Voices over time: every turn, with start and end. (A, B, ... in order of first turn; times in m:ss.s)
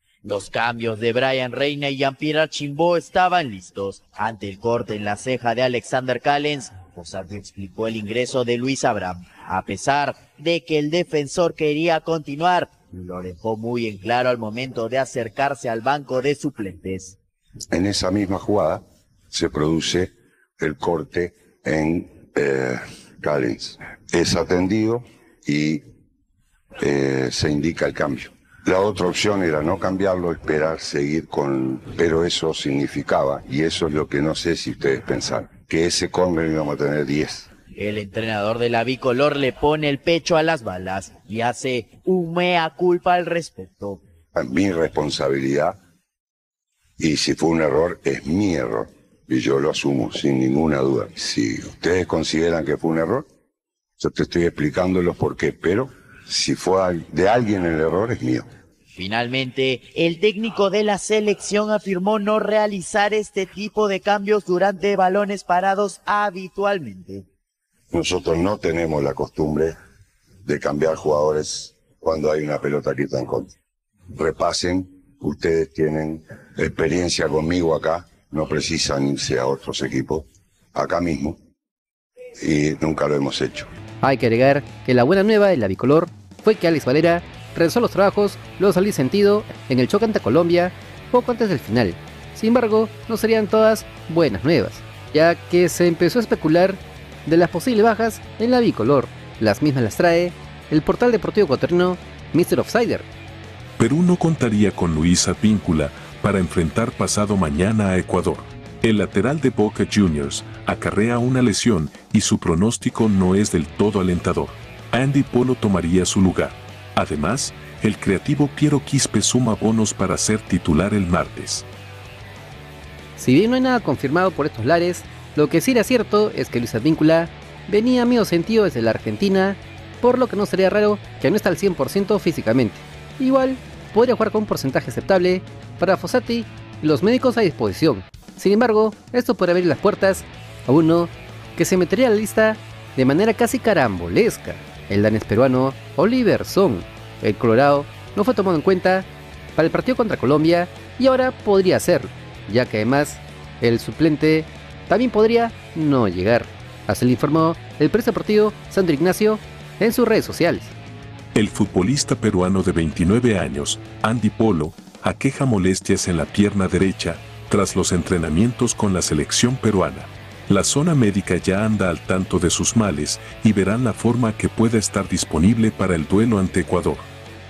0:00.2-0:17.2 A
0:17.7-0:25.8 B
0:26.8-0:37.5 B
0:37.7-0:44.0 A
0:44.3-0:45.8 B
0:47.0-0:53.2 B
0:54.0-0:58.4 B
0:58.9-1:07.2 A
1:07.9-1:09.7 B
1:10.4-1:13.5 B
1:14.1-1:21.4 B
1:22.4-1:23.7 B
1:24.0-1:43.1 C
1:43.8-2:01.6 D
2:03.2-2:40.7 C
2:41.3-2:57.1 D